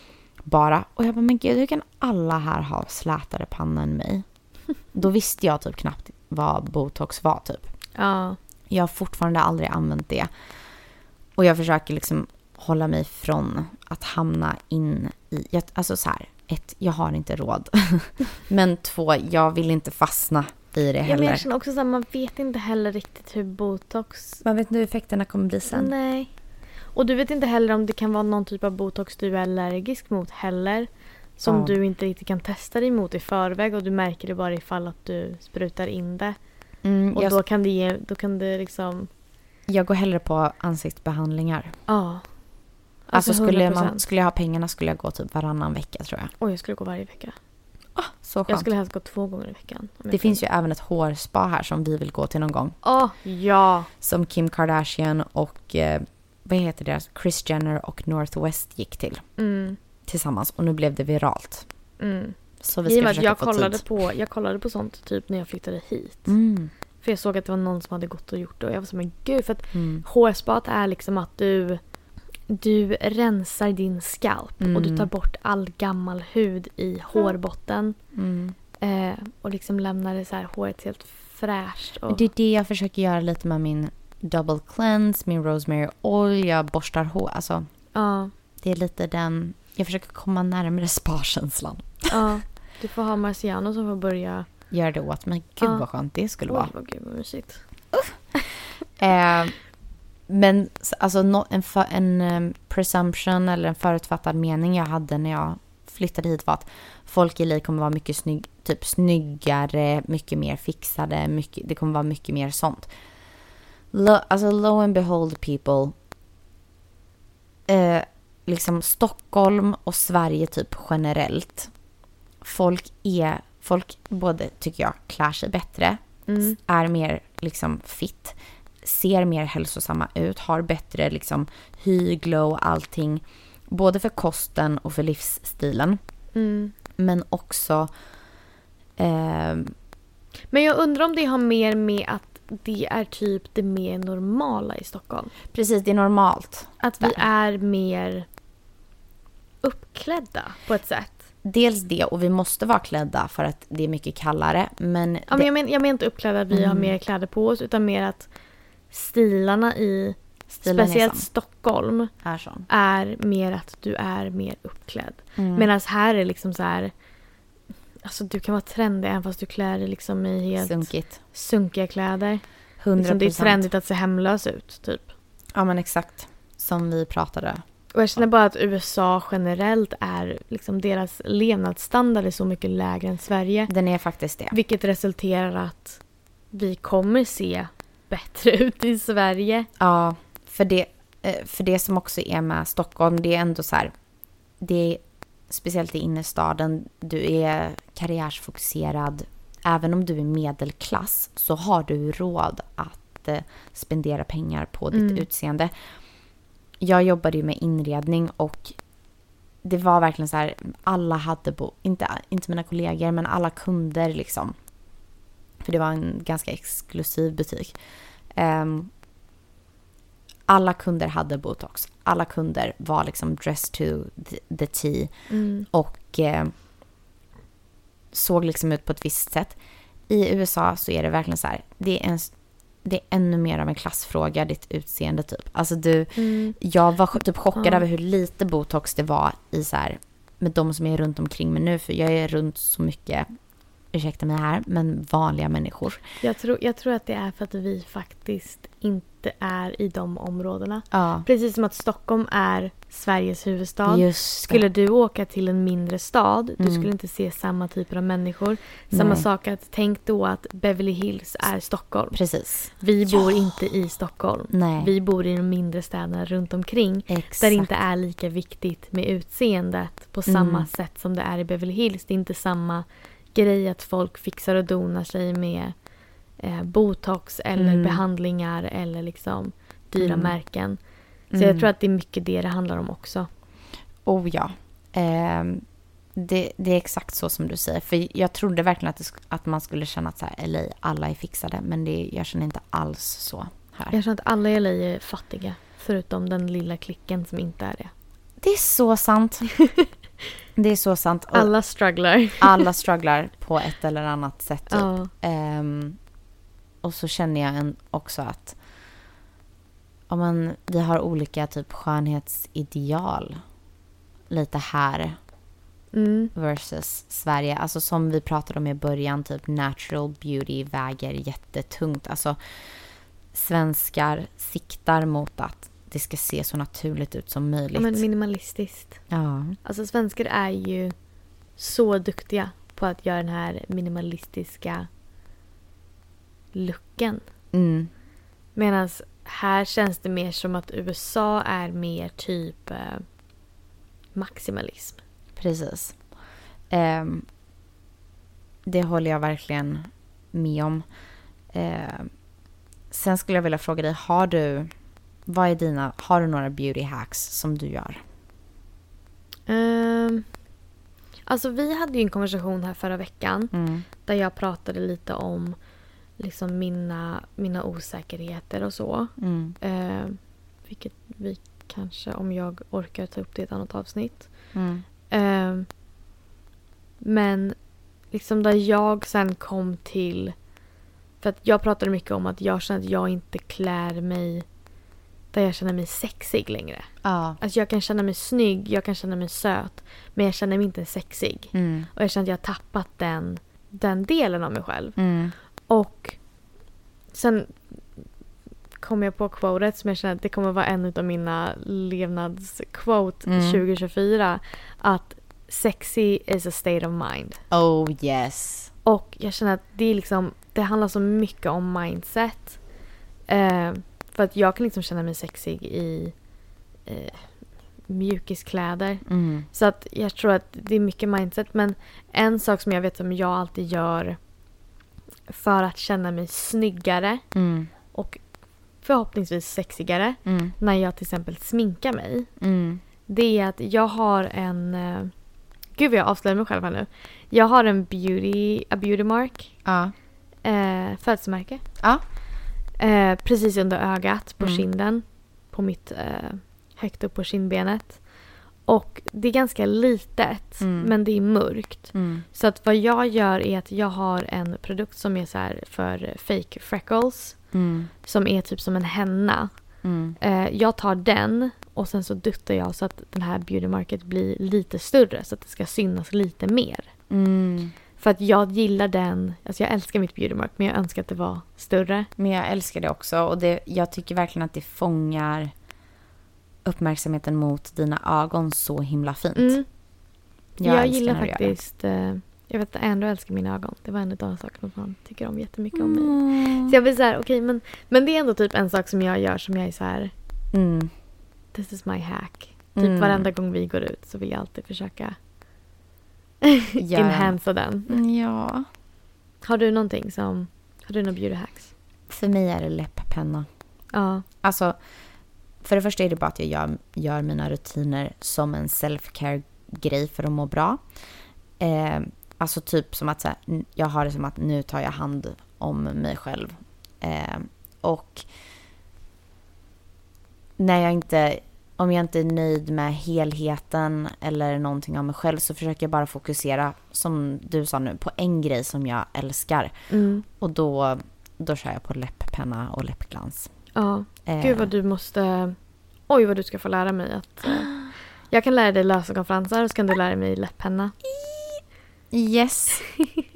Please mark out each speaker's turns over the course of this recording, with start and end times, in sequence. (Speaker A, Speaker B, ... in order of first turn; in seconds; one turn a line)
Speaker A: 0.5-4.2
Speaker A: 4.9-7.7
Speaker B: 8.0-8.4
Speaker A: 8.7-10.3
Speaker A: 11.4-21.4
Speaker B: 21.0-24.4
Speaker A: 24.4-25.9
Speaker B: 25.7-26.3
Speaker B: 26.9-36.4
Speaker A: 31.5-31.8
Speaker A: 36.8-37.4
Speaker B: 37.1-39.1
Speaker A: 39.7-41.8
Speaker B: 41.9-42.2
Speaker B: 43.1-44.0
Speaker A: 43.1-46.3
Speaker B: 46.4-47.4
Speaker A: 48.0-48.7
Speaker B: 48.5-50.4
Speaker A: 50.1-52.8
Speaker B: 52.8-53.9
Speaker A: 54.0-59.2
Speaker B: 59.4-59.8
Speaker A: 60.1-61.7
Speaker B: 62.0-66.3
Speaker A: 62.6-63.8
Speaker A: 66.3-66.7
Speaker B: 67.0-71.8
Speaker A: 69.7-70.0
Speaker B: 72.5-78.0
Speaker A: 74.6-75.1
Speaker A: 78.2-78.6
Speaker B: 78.8-82.3
Speaker A: 82.1-87.7
Speaker B: 87.9-88.3
Speaker A: 88.6-92.2
Speaker B: 92.1-94.5
Speaker A: 94.7-96.7
Speaker B: 96.5-97.6
Speaker A: 97.9-98.2
Speaker A: 99.0-99.6
Speaker A: 100.3-112.9
Speaker A: 113.9-115.9
Speaker A: 117.7-121.7
Speaker A: 122.4-136.0
Speaker B: 126.3-126.6
Speaker B: 136.3-136.7
Speaker A: 137.0-137.9
Speaker A: 139.0-139.7
Speaker B: 140.5-145.3
Speaker A: 145.5-147.3
Speaker B: 146.8-148.3
Speaker B: 149.6-151.2
Speaker A: 151.4-155.5
Speaker B: 155.3-158.3
Speaker A: 156.5-156.9
Speaker B: 158.9-162.1
Speaker A: 160.5-161.3
Speaker A: 162.2-162.7
Speaker B: 162.7-166.9
Speaker A: 165.4-165.7
Speaker B: 168.0-172.4
Speaker A: 170.6-171.2
Speaker A: 172.8-173.7
Speaker B: 173.0-175.1
Speaker A: 175.6-177.6
Speaker B: 177.9-183.7
Speaker A: 183.7-184.6
Speaker B: 184.5-186.0
Speaker B: 186.5-189.7
Speaker A: 189.8-193.9
Speaker A: 194.6-205.7
Speaker B: 204.9-205.3
Speaker A: 206.8-208.8
Speaker A: 209.6-214.6
Speaker A: 215.6-217.8
Speaker A: 218.3-218.9
Speaker A: 220.5-225.1
Speaker B: 225.3-225.7
Speaker A: 225.7-226.5
Speaker A: 228.1-229.6
Speaker A: 230.1-232.3
Speaker A: 232.8-243.3
Speaker B: 236.2-236.6
Speaker B: 237.6-237.8
Speaker A: 243.9-246.0
Speaker B: 246.2-262.2
Speaker A: 250.9-251.3
Speaker A: 253.9-254.7
Speaker A: 256.6-256.9
Speaker A: 258.9-259.3
Speaker A: 262.1-262.7
Speaker B: 262.7-275.8
Speaker A: 264.5-264.9
Speaker A: 267.1-267.7
Speaker A: 270.3-270.7
Speaker B: 276.4-280.8
Speaker A: 277.6-278.0
Speaker A: 280.0-280.3
Speaker A: 281.3-281.7
Speaker B: 281.4-283.3
Speaker A: 284.1-285.6
Speaker A: 286.2-294.0
Speaker B: 293.9-297.9
Speaker A: 298.4-299.6
Speaker A: 300.6-301.5
Speaker B: 301.3-302.7
Speaker A: 302.4-306.0
Speaker B: 304.7-305.1
Speaker A: 306.8-308.6
Speaker A: 310.1-313.4
Speaker A: 314.3-315.2
Speaker B: 315.9-316.3
Speaker A: 316.3-322.4
Speaker A: 323.3-328.1
Speaker B: 327.8-329.0
Speaker A: 329.1-329.6
Speaker B: 329.6-330.9
Speaker B: 331.6-334.9
Speaker B: 336.5-337.2
Speaker A: 337.5-337.9
Speaker B: 338.6-343.0
Speaker B: 344.1-345.0
Speaker A: 345.4-346.0
Speaker A: 346.7-347.3
Speaker A: 348.7-350.8
Speaker A: 351.5-352.1
Speaker A: 352.9-354.7
Speaker A: 355.3-358.0
Speaker B: 359.5-360.3
Speaker B: 361.3-365.6
Speaker A: 363.5-363.9
Speaker B: 366.2-374.3
Speaker A: 369.2-369.6
Speaker A: 374.5-374.8
Speaker B: 375.1-375.7
Speaker B: 377.0-377.6
Speaker B: 378.1-380.4
Speaker B: 381.2-384.4
Speaker B: 385.3-386.9
Speaker A: 387.0-387.4
Speaker B: 387.4-395.0
Speaker A: 391.5-391.9
Speaker A: 395.0-395.3
Speaker B: 395.7-396.2
Speaker B: 397.1-397.8
Speaker B: 398.8-407.4
Speaker A: 403.3-403.6
Speaker A: 407.5-408.7
Speaker B: 408.9-412.6
Speaker B: 413.3-416.1
Speaker B: 416.9-417.3
Speaker B: 417.9-424.2
Speaker A: 419.1-419.5
Speaker B: 425.3-427.2
Speaker A: 427.3-427.7
Speaker B: 427.9-428.2
Speaker B: 428.8-432.3
Speaker A: 430.3-430.5
Speaker A: 432.4-432.8
Speaker B: 433.1-435.1
Speaker B: 435.8-439.5
Speaker A: 439.6-439.9
Speaker B: 440.4-441.6
Speaker B: 442.8-448.0
Speaker B: 448.7-457.4
Speaker A: 450.6-450.9
Speaker A: 451.9-452.2
Speaker A: 457.5-457.9
Speaker B: 458.1-459.5
Speaker A: 459.8-460.2
Speaker B: 460.2-466.9
Speaker A: 467.1-467.7
Speaker B: 468.0-472.1
Speaker A: 472.2-475.5
Speaker A: 476.6-479.6
Speaker B: 479.4-479.7
Speaker A: 480.6-481.5
Speaker B: 480.6-490.1
Speaker A: 485.7-486.8
Speaker A: 490.5-490.9
Speaker B: 491.5-495.2
Speaker A: 492.8-493.3
Speaker B: 496.4-498.0
Speaker A: 496.8-497.4
Speaker A: 497.9-498.7
Speaker B: 499.4-501.7
Speaker A: 502.1-503.5
Speaker B: 503.9-504.2
Speaker A: 504.4-504.8
Speaker A: 505.6-510.8
Speaker A: 511.6-518.2
Speaker A: 520.6-529.7
Speaker B: 529.9-530.2
Speaker A: 530.4-533.5
Speaker B: 533.7-535.6
Speaker A: 534.3-534.7
Speaker B: 536.1-537.7
Speaker B: 538.3-541.0
Speaker A: 542.1-542.9